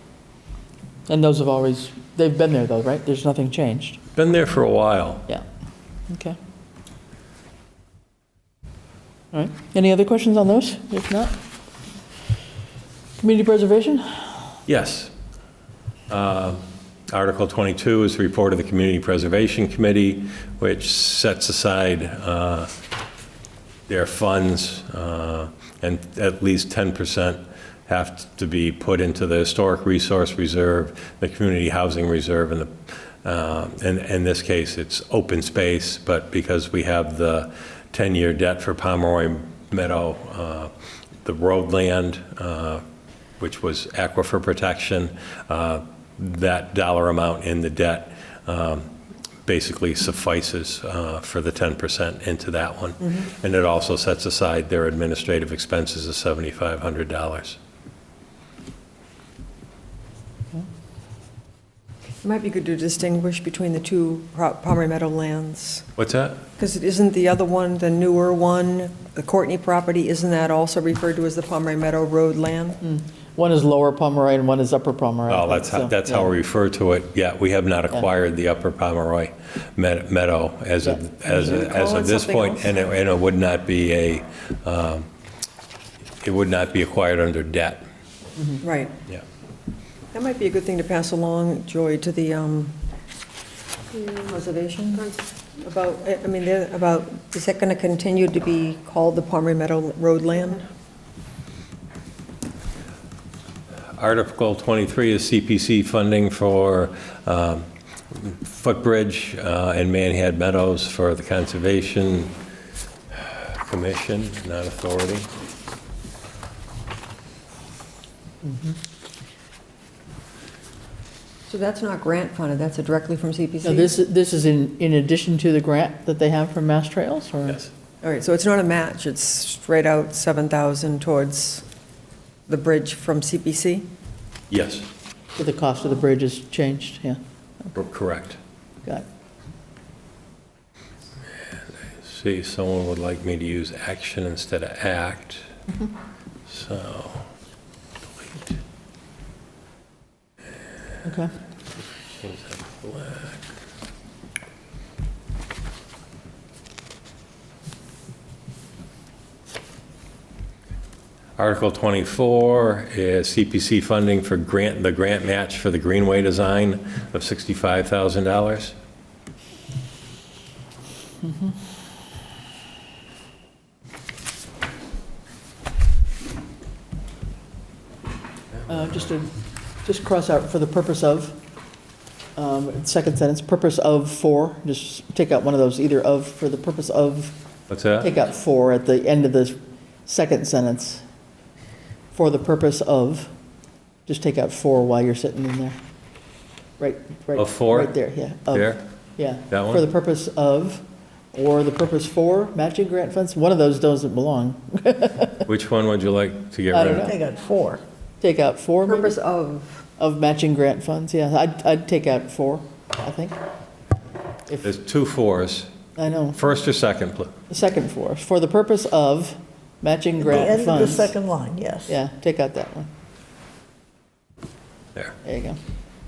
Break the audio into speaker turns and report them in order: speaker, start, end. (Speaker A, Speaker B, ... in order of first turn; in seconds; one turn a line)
Speaker A: 1.1-4.0
Speaker B: 4.2-5.2
Speaker A: 6.1-6.4
Speaker A: 9.3-11.3
Speaker A: 13.2-14.5
Speaker B: 14.7-15.1
Speaker B: 16.1-22.7
Speaker B: 23.9-32.7
Speaker B: 33.2-40.7
Speaker B: 41.2-42.8
Speaker B: 43.4-48.9
Speaker B: 49.5-57.6
Speaker C: 62.2-65.9
Speaker B: 66.0-66.4
Speaker C: 66.6-72.8
Speaker A: 72.8-76.3
Speaker B: 75.3-85.1
Speaker A: 80.8-81.5
Speaker C: 81.3-82.7
Speaker B: 86.2-87.8
Speaker C: 88.6-88.9
Speaker C: 90.1-92.8
Speaker C: 93.9-100.7
Speaker B: 104.0-112.3
Speaker B: 113.1-115.3
Speaker A: 118.4-118.8
Speaker C: 121.5-123.9
Speaker A: 123.6-127.6
Speaker C: 128.0-131.7
Speaker C: 132.5-133.9
Speaker B: 134.5-134.9
Speaker A: 135.4-137.2
Speaker B: 137.7-138.4
Speaker B: 142.0-145.5
Speaker B: 146.5-147.3
Speaker B: 148.1-148.6
Speaker A: 151.0-151.3
Speaker B: 152.1-153.4
Speaker B: 161.4-168.7
Speaker A: 178.7-179.3
Speaker A: 179.8-181.4
Speaker A: 182.3-187.4
Speaker B: 187.7-188.1
Speaker A: 188.0-191.0
Speaker A: 192.1-193.3
Speaker A: 194.1-195.8
Speaker A: 196.8-205.5
Speaker B: 197.3-198.0
Speaker B: 198.5-198.8
Speaker B: 199.5-199.8
Speaker B: 205.4-207.1
Speaker A: 206.7-207.2
Speaker D: 207.0-207.8
Speaker A: 208.2-209.1
Speaker C: 208.9-209.8
Speaker A: 210.0-213.4
Speaker B: 214.6-215.7
Speaker A: 216.0-216.4
Speaker B: 216.3-217.3
Speaker A: 217.5-221.1
Speaker D: 220.2-221.9
Speaker A: 221.9-222.9
Speaker A: 225.2-225.6